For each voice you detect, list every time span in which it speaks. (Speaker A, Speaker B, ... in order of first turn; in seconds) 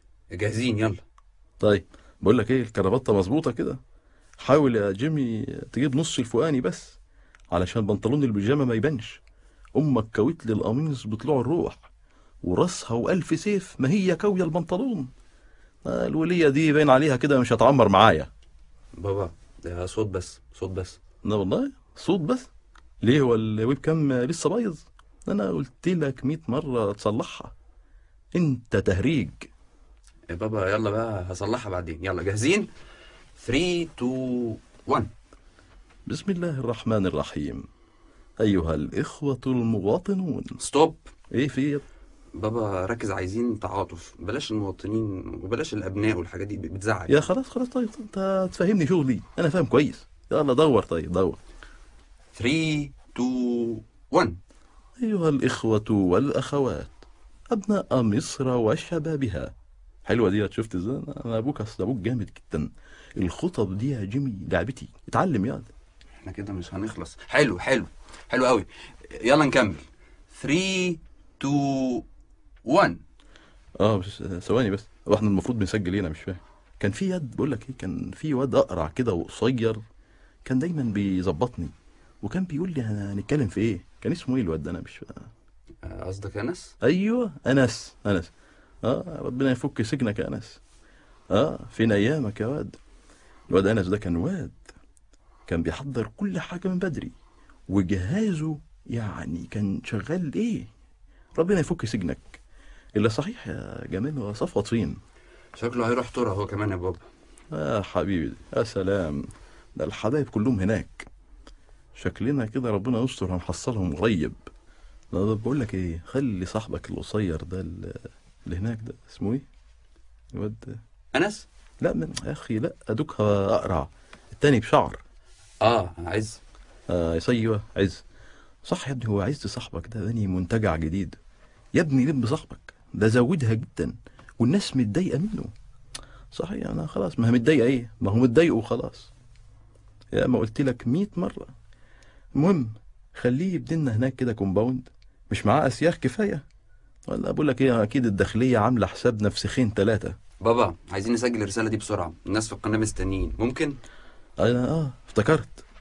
Speaker A: 0.3-1.0, 19.0-21.0, 30.3-32.7, 33.4-35.1, 40.6-41.1, 42.4-47.2, 52.4-54.4, 66.2-72.1, 72.7-73.0, 85.8-86.7, 105.5-107.0, 121.1-121.5, 125.6-126.4, 150.4-153.8
Speaker B: 1.6-3.8, 4.4-7.0, 7.5-9.2, 9.8-11.9, 12.4-15.1, 15.8-18.3, 21.2-22.5, 23.0-27.5, 28.3-29.5, 36.1-37.7, 38.4-40.6, 41.3-41.9, 47.1-51.4, 55.0-57.0, 57.5-59.5, 60.0-65.7, 73.8-79.8, 80.5-85.3, 86.8-88.3, 88.8-90.6, 91.3-92.8, 93.5-94.7, 95.5-97.1, 97.7-100.7, 101.4-102.4, 103.0-105.0, 107.5-111.1, 112.0-114.4, 115.1-119.5, 120.3-120.8, 121.8-125.0, 126.9-128.0, 128.7-131.2, 131.8-135.5, 136.3-139.1, 140.1-141.5, 142.3-146.4, 147.1-150.2, 154.4-155.6